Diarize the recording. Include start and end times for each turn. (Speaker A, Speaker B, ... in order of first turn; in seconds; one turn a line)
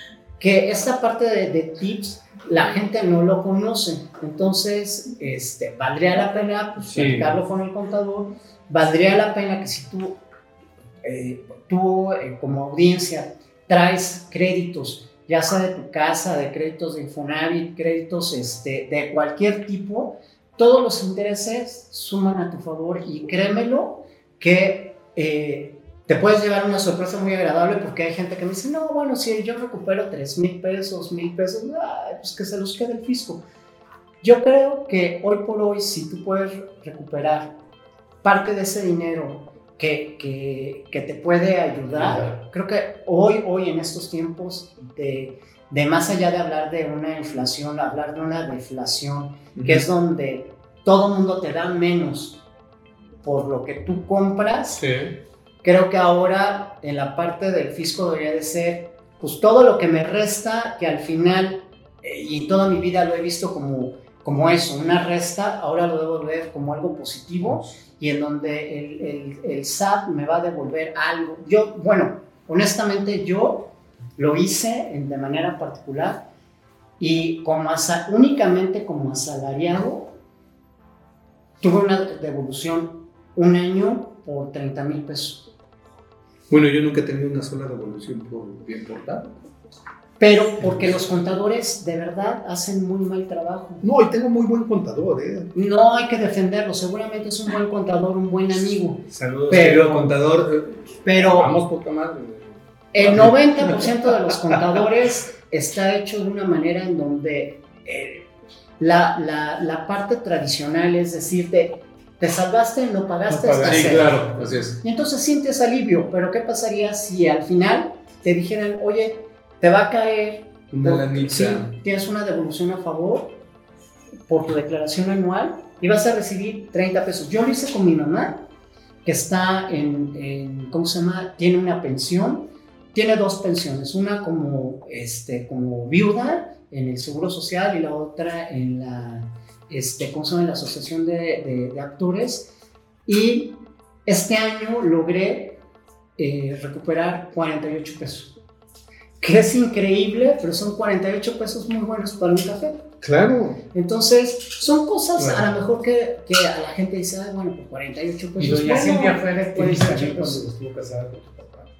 Speaker A: 0.4-10.2
Speaker B: 6.8-7.3
Speaker A: 11.0-33.4
Speaker A: 34.2-37.6
Speaker A: 38.2-52.4
Speaker C: 41.9-42.3
Speaker B: 49.5-49.9
Speaker A: 53.2-54.8
Speaker B: 54.8-55.2
Speaker A: 55.6-76.2
Speaker A: 77.0-80.2
Speaker A: 81.6-85.5
Speaker B: 86.5-89.3
Speaker A: 90.2-93.8
Speaker B: 93.8-95.5
Speaker A: 95.5-100.1
Speaker B: 99.1-104.8
Speaker A: 101.0-101.5
Speaker A: 102.9-108.3
Speaker A: 108.8-123.4
Speaker C: 113.3-114.5
Speaker B: 113.6-114.8
Speaker B: 120.7-121.7
Speaker A: 124.3-128.4
Speaker A: 129.0-142.5
Speaker A: 143.1-145.6
Speaker A: 146.2-148.3
Speaker A: 149.2-152.9
Speaker B: 153.0-153.6
Speaker A: 153.7-160.4
Speaker B: 155.2-155.4
Speaker C: 158.4-161.7